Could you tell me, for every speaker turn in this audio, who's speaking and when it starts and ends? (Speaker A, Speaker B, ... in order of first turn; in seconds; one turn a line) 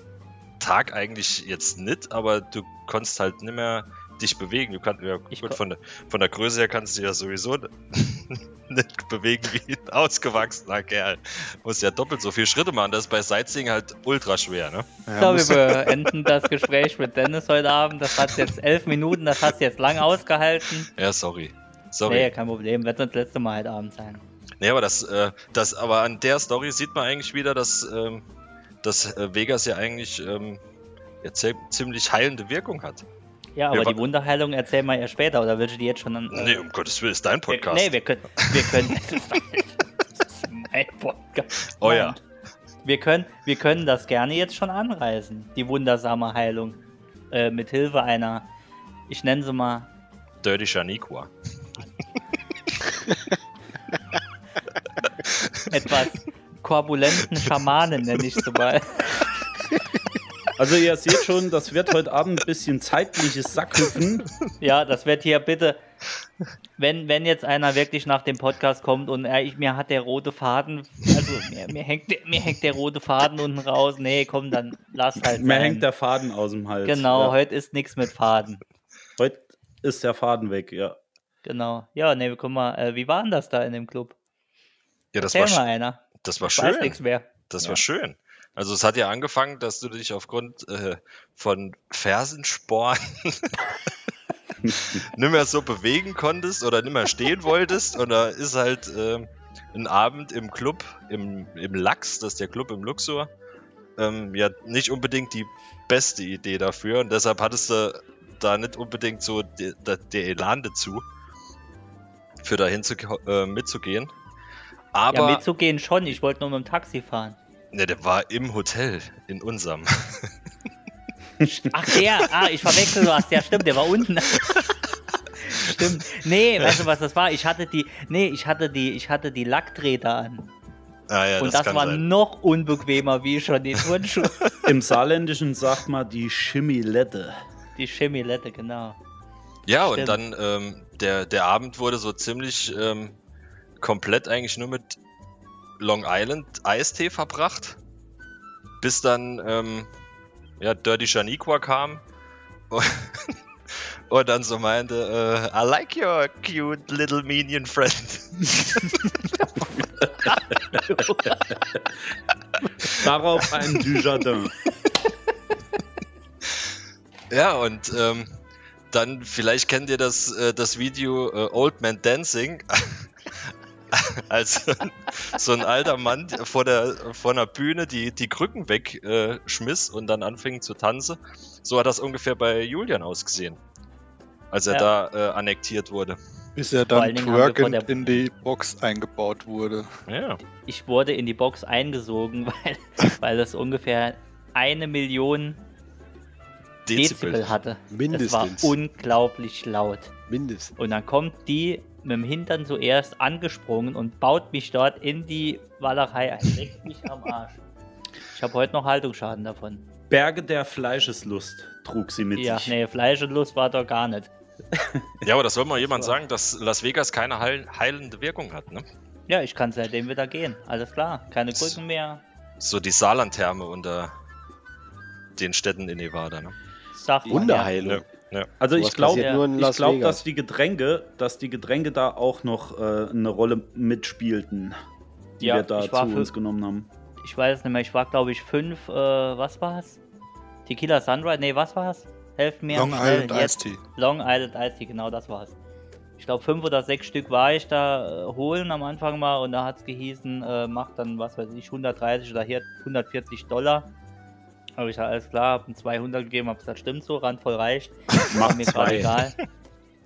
Speaker A: 0.6-14.9
Speaker B: 5.3-5.6
Speaker C: 15.1-15.8
Speaker B: 15.1-20.9
Speaker A: 20.9-22.3
Speaker B: 22.1-24.2
Speaker A: 24.6-28.2
Speaker A: 28.8-30.6
Speaker A: 31.2-33.0
Speaker B: 33.5-36.6
Speaker A: 33.7-34.0
Speaker A: 36.3-38.9
Speaker B: 37.5-39.7
Speaker B: 40.2-42.2
Speaker A: 41.8-42.2
Speaker B: 42.8-46.8
Speaker B: 47.3-48.5
Speaker B: 49.1-49.9
Speaker A: 50.4-51.3
Speaker B: 55.7-59.3
Speaker D: 60.6-64.2
Speaker B: 64.6-65.8
Speaker B: 66.8-75.9
Speaker D: 75.2-77.4
Speaker B: 76.8-78.6
Speaker D: 79.2-81.0
Speaker B: 81.4-84.2
Speaker A: 85.1-85.6
Speaker B: 85.2-87.3
Speaker A: 86.2-93.5
Speaker D: 94.6-95.0
Speaker A: 94.7-103.3
Speaker A: 104.0-111.0
Speaker A: 112.4-114.1
Speaker A: 114.9-115.4
Speaker B: 115.1-117.4
Speaker A: 117.7-120.3
Speaker B: 121.5-124.6
Speaker A: 122.6-123.0
Speaker B: 125.4-130.5
Speaker A: 131.1-132.0
Speaker B: 131.4-134.4
Speaker D: 134.6-137.4
Speaker B: 137.8-139.0
Speaker A: 139.7-143.1
Speaker B: 139.8-140.2
Speaker A: 143.8-145.0
Speaker A: 145.8-147.8
Speaker A: 148.8-149.9
Speaker A: 150.6-152.0
Speaker A: 152.7-159.0
Speaker B: 160.2-161.4
Speaker D: 161.7-162.1
Speaker D: 162.8-164.5
Speaker A: 167.3-168.3
Speaker A: 168.9-183.6
Speaker A: 184.5-186.2
Speaker C: 186.5-189.9
Speaker B: 186.9-188.2
Speaker A: 190.1-190.4
Speaker B: 190.6-195.6
Speaker A: 196.8-197.5
Speaker B: 196.9-200.1
Speaker E: 197.9-198.7
Speaker E: 200.3-200.7
Speaker B: 200.8-207.6
Speaker B: 208.3-209.8
Speaker D: 210.1-212.7
Speaker B: 212.3-214.3
Speaker D: 214.7-215.2
Speaker A: 215.2-218.8
Speaker B: 219.3-222.2
Speaker A: 222.6-224.1
Speaker A: 225.4-226.5
Speaker B: 226.9-227.7
Speaker E: 227.3-228.0
Speaker A: 227.8-228.5
Speaker D: 228.6-234.8
Speaker E: 228.7-230.2
Speaker B: 229.2-229.4
Speaker D: 235.4-236.9
Speaker B: 235.4-236.3
Speaker B: 237.2-240.0
Speaker B: 240.7-245.5
Speaker C: 242.7-243.8
Speaker B: 246.2-253.9
Speaker B: 254.8-259.4
Speaker D: 258.2-259.2